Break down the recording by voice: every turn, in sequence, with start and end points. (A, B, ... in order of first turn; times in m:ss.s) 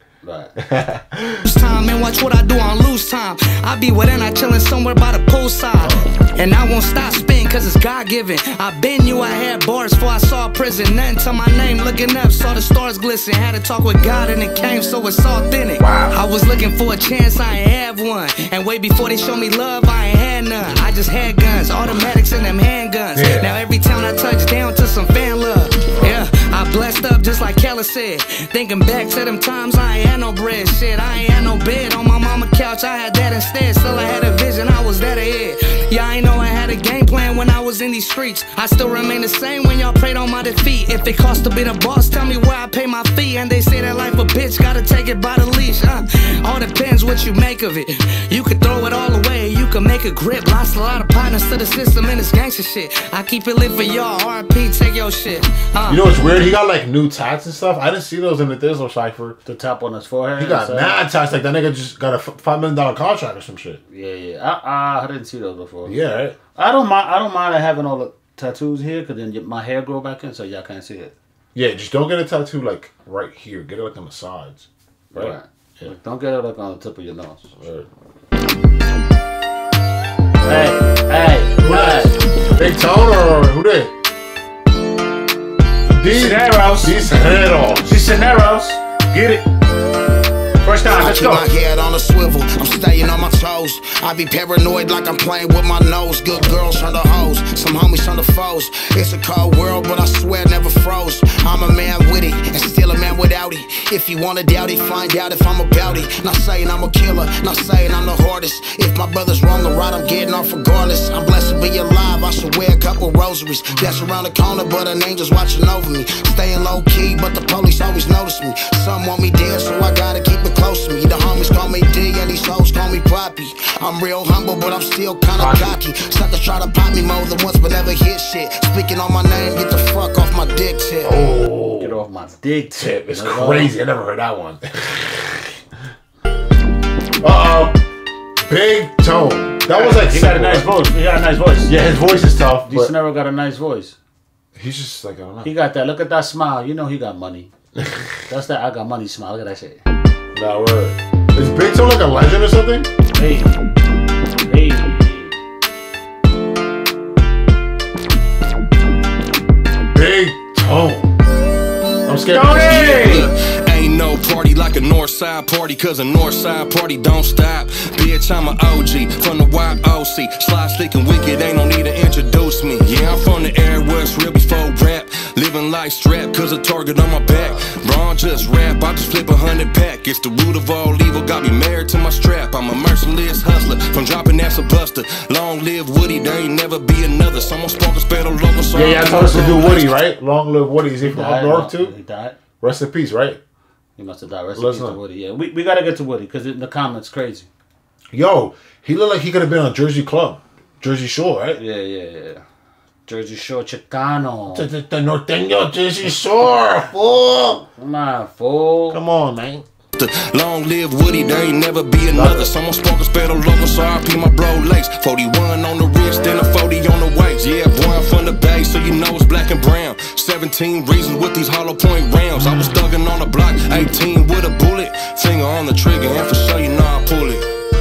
0:00.2-0:00.5 A
0:00.6-0:01.5 B
0:01.4-0:56.0 C
0:05.8-0:06.2 B
0:15.8-0:16.2 B
0:23.1-0:23.6 B
0:25.9-0:26.3 B
0:55.8-0:59.4 B
0:59.4-1:01.0 A
1:00.4-1:03.8 B
1:03.9-1:06.0 A
1:05.8-1:06.4 B
1:06.5-1:11.1 A
1:11.5-1:15.9 B
1:15.1-1:17.5 A
1:17.6-1:17.9 B
1:20.4-1:22.2 A
1:21.6-1:23.9 B
1:25.9-1:28.0 B
1:26.0-1:27.0 A
1:27.8-1:29.4 A
1:30.6-1:31.4 A
1:30.8-2:11.2 D
1:36.3-1:36.6 B
2:05.3-2:05.8 B
2:11.0-2:12.0 B
2:11.8-2:13.7 A
2:12.8-2:15.5 B
2:17.2-2:17.8 B
2:18.4-2:20.7 B
2:19.7-2:21.8 A
2:21.7-2:22.9 B
2:22.7-2:24.0 A
2:24.6-2:25.5 B
2:25.4-2:27.5 A
2:27.8-2:28.1 B
2:28.3-2:29.8 A
2:30.3-2:32.9 B
2:33.1-2:33.6 A
2:34.5-2:35.4 A
2:39.9-2:41.1 B
2:42.0-2:43.3 B
2:42.3-2:43.3 A
2:42.6-3:10.0 E
3:08.7-3:11.9 B
3:11.0-3:12.4 A
3:12.6-3:13.4 B
3:14.0-3:17.5 A
3:14.5-3:15.0 B
3:18.1-3:21.6 B
3:21.6-3:22.4 A
3:23.1-3:24.7 A
3:24.5-3:27.6 B
3:27.7-3:29.0 A
3:28.9-3:29.6 B
3:30.0-3:47.4 E
3:32.1-3:32.5 B
3:42.4-3:42.8 B